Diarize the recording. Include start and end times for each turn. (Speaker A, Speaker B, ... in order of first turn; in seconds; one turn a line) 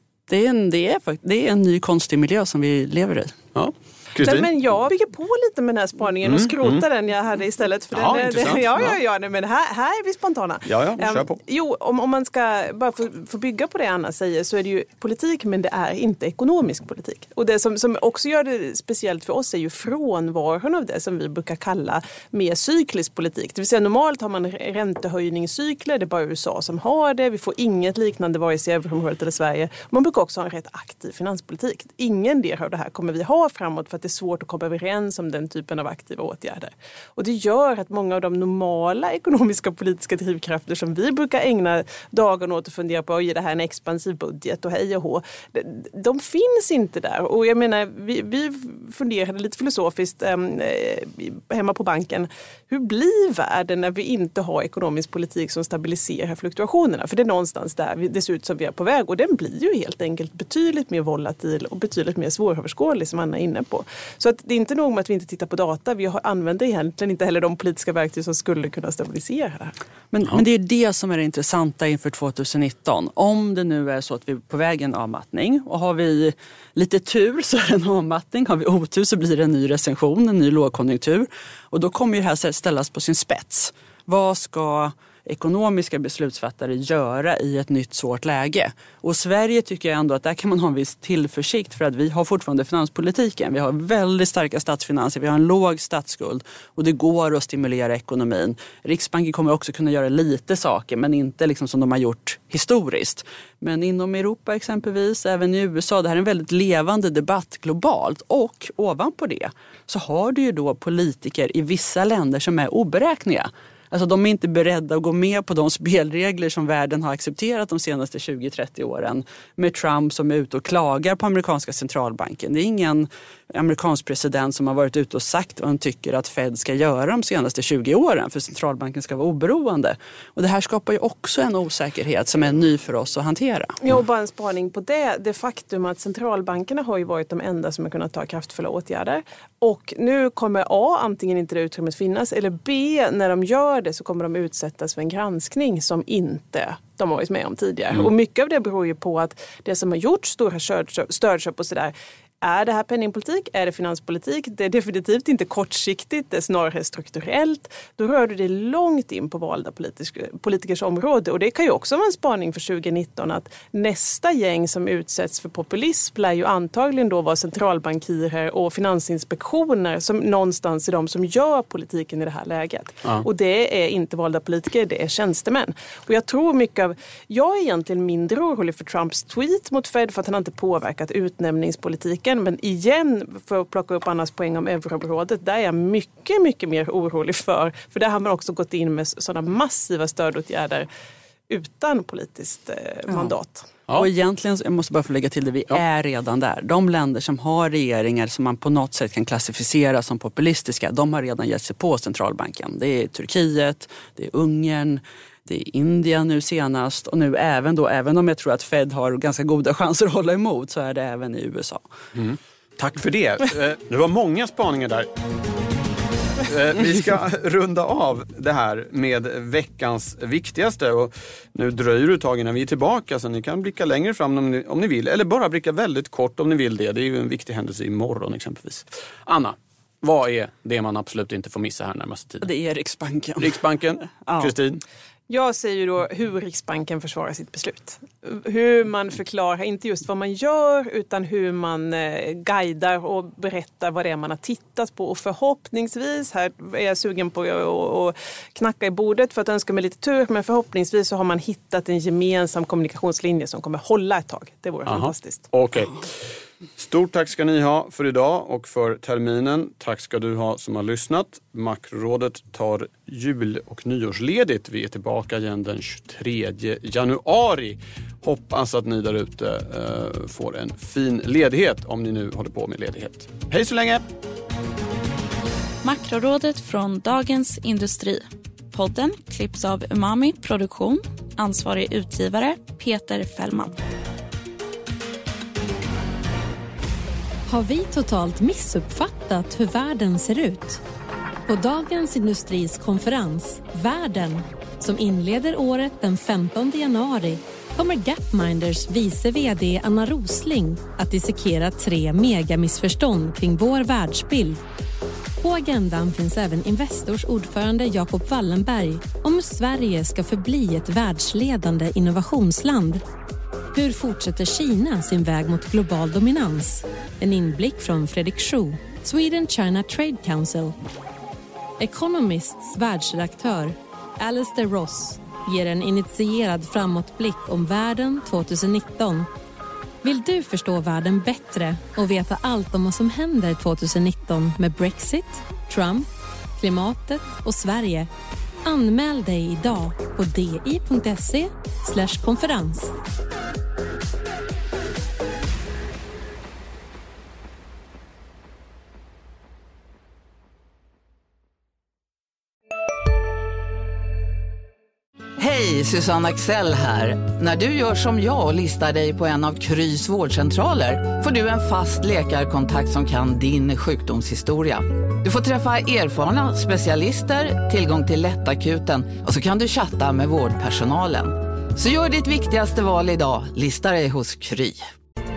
Speaker A: 0.3-3.4
Speaker B: 3.5-4.5
Speaker C: 4.2-69.7
Speaker B: 6.2-6.8
Speaker B: 7.9-9.0
Speaker B: 10.7-11.4
Speaker A: 70.1-133.8
Speaker C: 133.8-190.9
Speaker C: 191.5-193.7
Speaker A: 193.9-211.8
Speaker B: 212.1-215.1
Speaker B: 216.4-232.4
Speaker A: 232.4-233.5
Speaker B: 233.4-234.8
Speaker A: 234.2-234.5
Speaker C: 235.3-255.5
Speaker B: 254.8-256.1
Speaker B: 256.8-274.1
Speaker D: 275.8-283.8
Speaker E: 287.5-290.8
Speaker E: 291.5-304.6
Speaker E: 305.4-313.0
Speaker E: 313.7-320.8
Speaker E: 321.8-329.3
Speaker E: 330.0-336.1
Speaker E: 336.6-338.1
Speaker E: 338.6-342.9
Speaker F: 355.4-374.9